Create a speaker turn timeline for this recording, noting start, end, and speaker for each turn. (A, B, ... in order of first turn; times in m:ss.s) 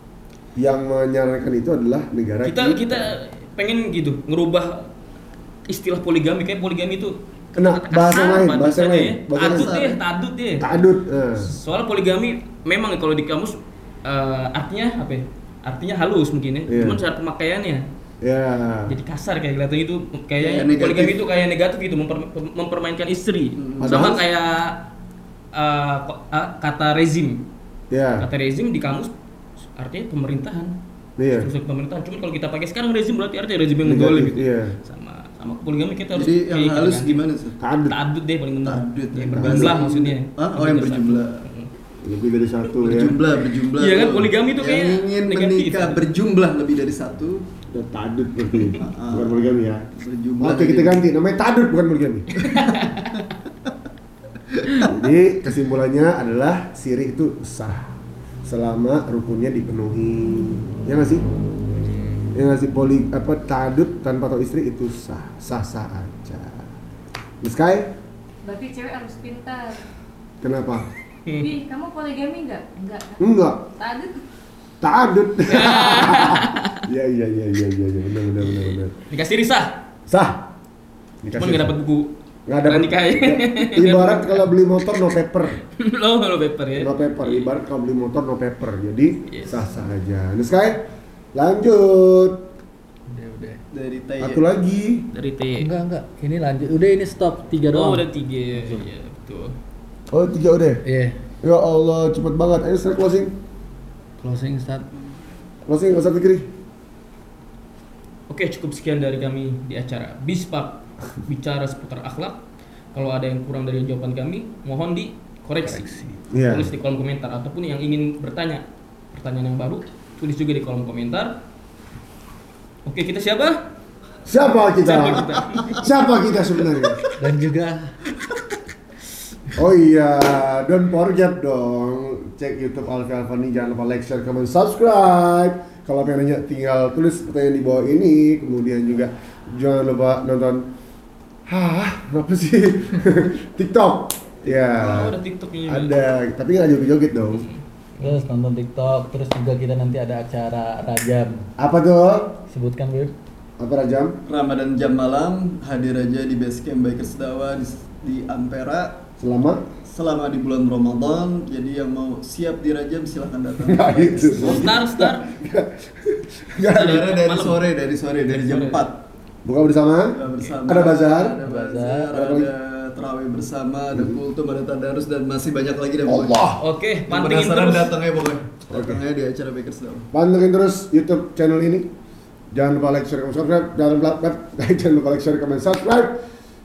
0:00.6-0:03.1 A
0:02.4-0:04.9 B
0:05.7-0:10.7 B
0:07.6-0:09.8 A
0:09.4-0:10.0 C
0:10.6-0:11.5 A
0:11.4-0:17.8 B
0:16.7-0:17.0 A
0:18.2-0:19.0 A
0:18.9-0:24.8 B
0:20.4-0:21.3 C
0:23.6-0:24.1 C
0:23.8-0:24.2 A
0:25.6-0:27.4 B
0:27.9-0:28.3 A
0:28.2-0:29.1 B
0:29.8-0:30.8 B
0:31.2-0:31.5 A
0:31.4-0:37.2 B
0:33.8-0:34.8 A
0:36.1-0:37.6 C
0:37.6-0:38.0 A
0:37.8-0:41.7 B
0:38.6-0:41.4 C
0:39.3-0:39.9 A
0:42.0-0:43.2 A
0:42.7-0:47.4 C
0:43.3-0:46.1 B
0:47.7-0:49.9 A
0:48.7-0:51.0 C
0:50.4-0:52.3 A
0:52.4-0:53.2 B
0:54.5-0:54.9 C
0:54.8-1:01.3 A
1:02.4-1:06.7 A
1:07.4-1:07.9 A
1:08.4-1:09.7 D
1:10.4-1:10.9 A
1:11.3-1:11.6 B
1:11.5-1:13.2 D
1:13.2-1:13.7 A
1:13.8-1:14.2 D
1:14.8-1:19.0 A
1:15.5-1:16.8 B
1:18.4-1:19.8 B
1:20.1-1:20.4 A
1:21.2-1:21.8 A
1:21.4-1:22.1 B
1:22.5-1:25.6 A
1:22.6-1:27.5 B
1:26.8-1:32.4 A
1:29.3-1:29.6 B
1:33.1-1:33.6 E
1:33.7-1:34.4 C
1:34.2-1:35.1 A
1:35.1-1:35.7 B
1:35.6-1:38.9 E
1:37.7-1:39.6 B
1:40.1-1:40.8 A
1:40.8-1:41.2 E
1:41.4-1:43.3 A
1:44.2-1:44.9 E
1:45.7-1:46.5 A
1:48.3-1:52.4 B
1:52.9-1:55.9 B
1:55.6-1:56.2 E
1:56.3-1:56.7 A
1:56.4-2:01.4 B
2:02.8-2:03.6 B
2:04.3-2:07.0 A
2:04.8-2:05.8 B
2:07.2-2:08.0 E
2:09.6-2:20.6 A
2:21.5-2:27.5 A
2:24.7-2:26.0 B
2:27.3-2:28.2 B
2:28.0-2:31.5 E
2:31.6-2:32.4 A
2:32.5-2:33.1 E
2:33.6-2:34.2 A
2:34.3-2:39.0 C
2:39.2-2:39.7 A
2:39.8-2:44.8 C
2:43.6-2:47.0 A
2:44.4-2:45.3 B
2:46.6-2:48.9 B
2:46.8-2:49.0 C
2:49.4-2:51.4 A
2:50.1-2:56.4 C
2:51.4-2:52.1 E
2:52.1-2:52.5 A
2:56.1-2:56.6 A
2:56.6-2:58.0 B
2:57.1-3:00.1 C
2:58.7-2:59.0 A
3:00.1-3:01.9 A
3:02.5-3:06.2 A